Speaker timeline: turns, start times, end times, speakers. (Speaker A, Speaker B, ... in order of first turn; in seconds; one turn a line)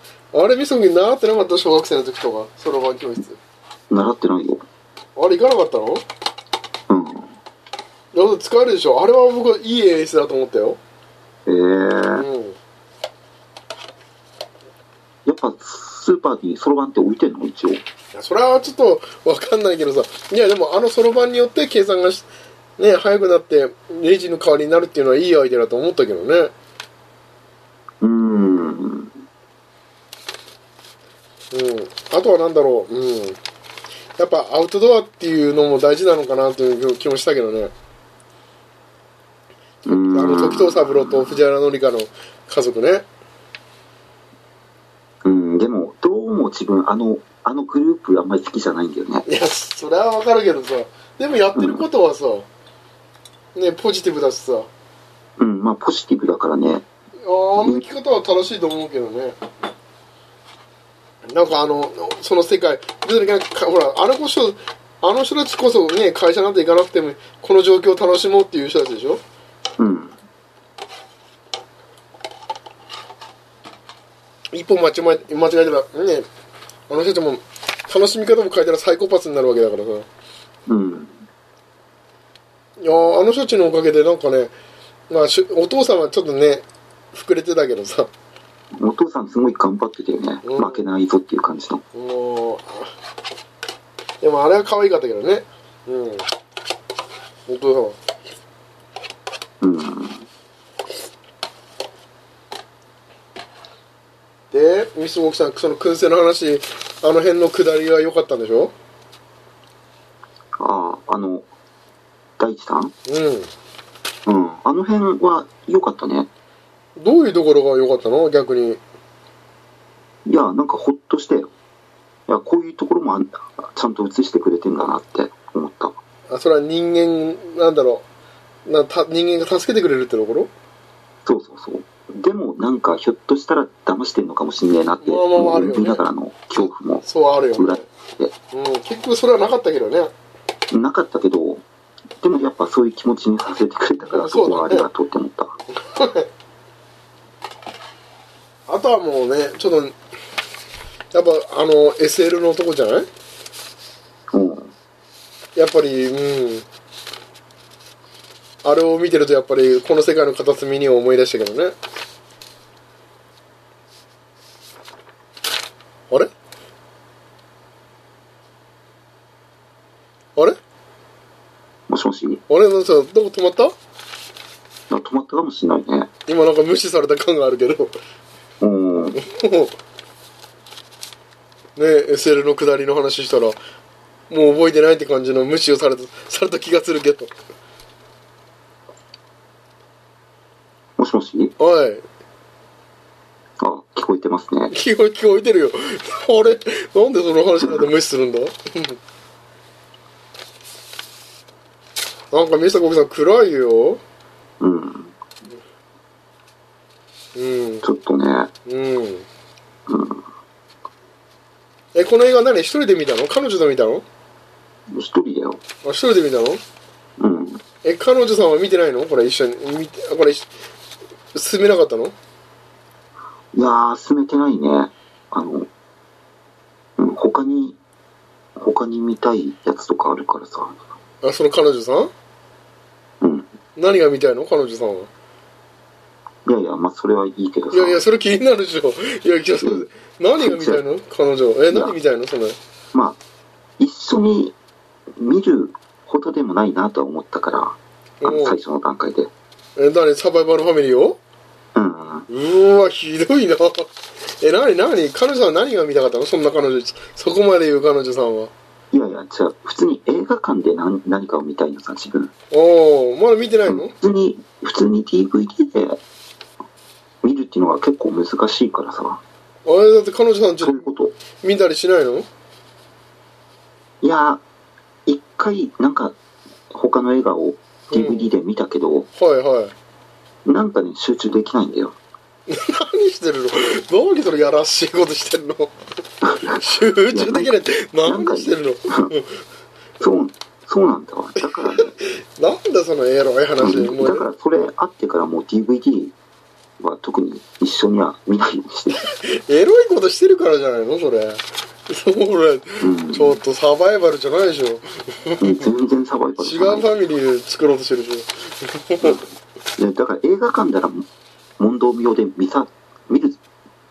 Speaker A: 0.3-3.4
Speaker B: 3.9-4.7
Speaker A: 5.2-6.0
Speaker B: 6.9-7.3
Speaker A: 8.1-10.8
Speaker B: 11.5-12.3
Speaker A: 12.2-12.6
Speaker B: 15.2-17.8
Speaker A: 18.1-26.5
Speaker B: 28.0-29.1
Speaker A: 31.5-33.4
Speaker A: 34.2-37.7
Speaker B: 39.9-41.4
Speaker A: 39.9-43.1
Speaker B: 45.2-49.2
Speaker A: 49.3-52.5
Speaker B: 51.5-51.9
Speaker A: 53.5-54.7
Speaker B: 55.4-56.9
Speaker A: 57.2-59.4
Speaker A: 61.3-69.2
Speaker B: 69.8-70.2
Speaker A: 74.5-76.3
Speaker A: 76.9-80.1
Speaker B: 80.7-81.2
Speaker A: 82.8-84.5
Speaker A: 85.1-88.1
Speaker B: 88.8-91.8
Speaker A: 90.4-90.9
Speaker A: 91.9-92.9
Speaker A: 94.2-96.3
Speaker A: 97.5-98.0
Speaker B: 99.6-100.3
Speaker A: 104.5-108.7
Speaker B: 110.6-111.5
Speaker B: 112.4-112.9
Speaker A: 113.1-113.5
Speaker B: 114.3-116.3
Speaker A: 117.0-118.8
Speaker B: 120.2-121.5
Speaker B: 122.3-126.0
Speaker A: 126.3-128.1
Speaker A: 128.7-130.5
Speaker B: 131.2-138.3
Speaker A: 135.0-137.9
Speaker A: 138.5-140.1
Speaker B: 140.7-141.6
Speaker B: 142.2-145.6
Speaker A: 144.0-144.9
Speaker A: 145.8-146.3
Speaker A: 148.7-150.0
Speaker A: 151.1-153.1
Speaker B: 154.3-154.7
Speaker A: 155.6-156.7
Speaker A: 158.6-161.8
Speaker B: 171.9-172.4
Speaker A: 172.5-173.8
Speaker B: 174.9-176.1
Speaker A: 176.3-177.9
Speaker B: 178.6-179.2
Speaker A: 179.2-179.7
Speaker A: 181.8-183.6
Speaker A: 184.3-187.3
Speaker B: 191.0-191.5
Speaker A: 191.6-192.0
Speaker B: 193.6-194.7
Speaker A: 194.7-199.0
Speaker A: 202.3-204.0
Speaker B: 204.6-205.2
Speaker A: 207.3-207.8
Speaker B: 207.8-208.5
Speaker A: 208.7-209.3
Speaker B: 209.9-210.2
Speaker A: 211.9-214.1
Speaker B: 214.9-215.6
Speaker A: 215.8-216.6
Speaker B: 217.2-217.6
Speaker A: 217.8-220.5
Speaker A: 221.3-222.2
Speaker B: 223.5-225.7
Speaker B: 227.0-227.8
Speaker B: 228.6-230.8
Speaker A: 231.2-232.1
Speaker B: 233.2-233.5
Speaker A: 233.8-235.1
Speaker B: 236.5-238.0
Speaker A: 237.7-242.6
Speaker B: 240.4-240.8
Speaker B: 241.7-242.0
Speaker B: 242.9-243.2
Speaker B: 243.8-244.6
Speaker B: 245.2-249.3
Speaker A: 248.2-248.6
Speaker A: 249.8-251.2
Speaker B: 251.8-252.3
Speaker A: 252.3-258.5
Speaker B: 258.9-262.3
Speaker A: 262.5-263.9
Speaker B: 263.7-266.0
Speaker B: 267.2-269.2
Speaker A: 269.7-270.9
Speaker B: 270.6-271.2
Speaker A: 271.4-272.3
Speaker B: 274.0-274.4
Speaker B: 275.1-276.2
Speaker B: 276.7-279.1
Speaker A: 277.9-278.3
Speaker A: 279.1-279.7
Speaker B: 280.4-282.0
Speaker A: 282.5-285.7
Speaker B: 286.2-287.5
Speaker A: 286.4-289.4
Speaker B: 288.0-289.1
Speaker B: 290.0-291.9
Speaker A: 291.4-294.3
Speaker B: 293.6-296.1
Speaker B: 296.8-299.1
Speaker A: 298.9-305.7
Speaker B: 302.8-303.4
Speaker B: 305.4-306.9
Speaker A: 306.4-309.2
Speaker B: 309.8-311.1
Speaker B: 311.6-313.4